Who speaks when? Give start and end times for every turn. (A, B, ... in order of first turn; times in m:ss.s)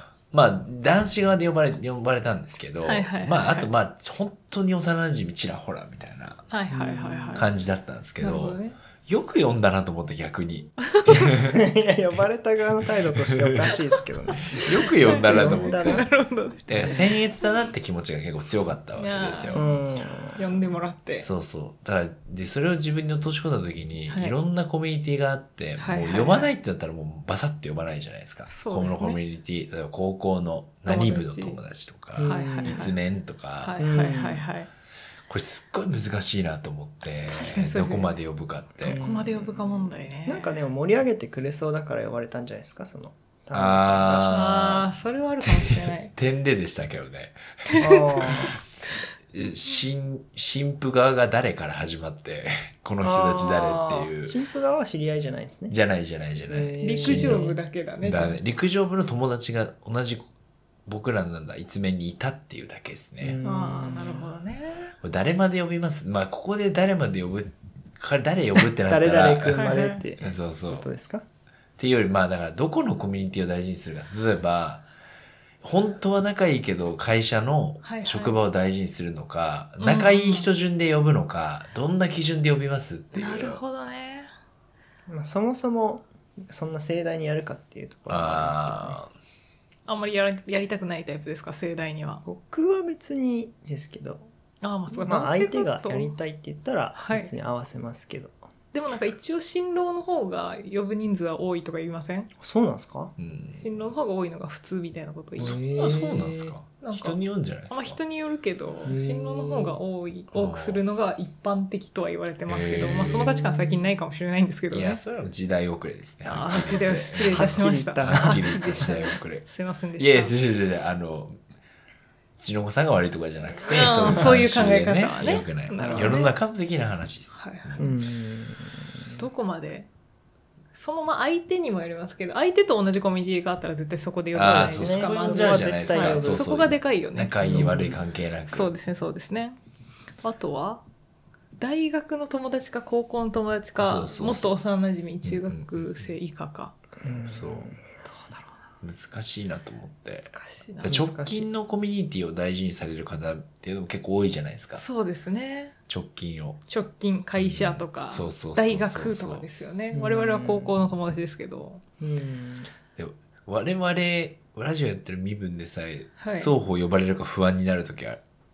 0:00.3-0:06.4 A
0:02.8-0:03.7 B
0:06.5-0:07.5 B
0:06.7-0:07.4 C
0:07.3-0:11.6 A
0:08.2-0:08.8 B
0:10.9-0:11.3 B
0:11.5-0:16.0 C
0:14.5-0:16.1 A
0:15.0-0:16.9 B
0:16.7-0:19.6 A
0:19.0-0:19.8 B
0:19.5-0:20.5 C
0:20.4-0:21.3 B
0:21.2-0:33.8 A
0:24.1-0:24.3 B
0:25.8-0:26.5 B
0:28.5-0:29.2 B
0:30.9-0:31.6 B
0:32.2-0:32.9 C
0:32.2-0:33.0 B
0:33.6-0:34.7 B
0:33.8-0:34.5 C
0:35.3-0:39.0 A
0:37.3-0:38.2 B
0:38.8-0:40.5 B
0:38.8-0:44.3 C
0:43.5-0:44.9 A
0:44.3-0:46.1 B
0:45.4-0:47.4 A
0:47.7-0:48.9 B
0:47.8-0:48.5 C
0:49.3-0:54.4 A
0:53.0-0:55.8 C
0:55.7-0:57.5 A
0:56.5-0:57.6 C
0:56.8-0:58.4 B
0:58.0-1:00.3 A
1:00.9-1:03.4 A
1:03.2-1:04.3 C
1:03.4-1:04.9 B
1:05.0-1:10.9 A
1:08.9-1:11.2 C
1:09.5-1:10.1 B
1:11.8-1:14.9 A
1:15.6-1:23.6 A
1:17.8-1:18.4 B
1:19.8-1:20.5 B
1:23.1-1:24.3 B
1:25.1-1:29.0 C
1:28.1-1:29.1 A
1:29.9-1:32.2 B
1:32.2-1:34.3 C
1:34.6-1:36.2 B
1:34.9-1:38.4 C
1:37.0-1:37.3 B
1:38.7-1:42.3 B
1:42.4-1:43.1 C
1:43.2-1:43.9 A
1:43.6-1:45.6 B
1:45.4-1:46.6 C
1:45.4-1:48.0 A
1:46.8-1:55.0 B
1:48.8-1:49.8 C
1:50.3-1:50.8 A
1:52.5-1:53.4 A
1:53.1-1:53.9 C
1:54.7-1:59.5 A
1:56.2-2:00.4 B
1:56.5-1:59.0 C
2:00.0-2:01.4 A
2:02.4-2:08.0 A
2:03.7-2:06.3 B
2:05.8-2:06.3 C
2:07.3-2:07.8 B
2:07.8-2:09.2 C
2:09.1-2:09.9 B
2:10.7-2:17.7 B
2:14.3-2:16.5 C
2:14.3-2:18.8 A
2:17.4-2:18.0 C
2:18.5-2:19.6 B
2:20.2-2:20.8 B
2:21.6-2:26.7 B
2:23.8-2:24.6 A
2:25.2-2:25.9 A
2:27.0-2:28.0 C
2:27.3-2:27.7 A
2:28.1-2:28.5 B
2:28.8-2:30.3 A
2:30.2-2:31.0 B
2:30.8-2:34.8 A
2:30.8-2:31.5 C
2:34.8-2:35.8 B
2:35.9-2:36.6 A
2:36.7-2:41.8 B
2:37.4-2:39.5 A
2:39.9-2:40.8 C
2:42.0-2:42.7 C
2:43.0-2:48.2 A
2:46.2-2:46.5 B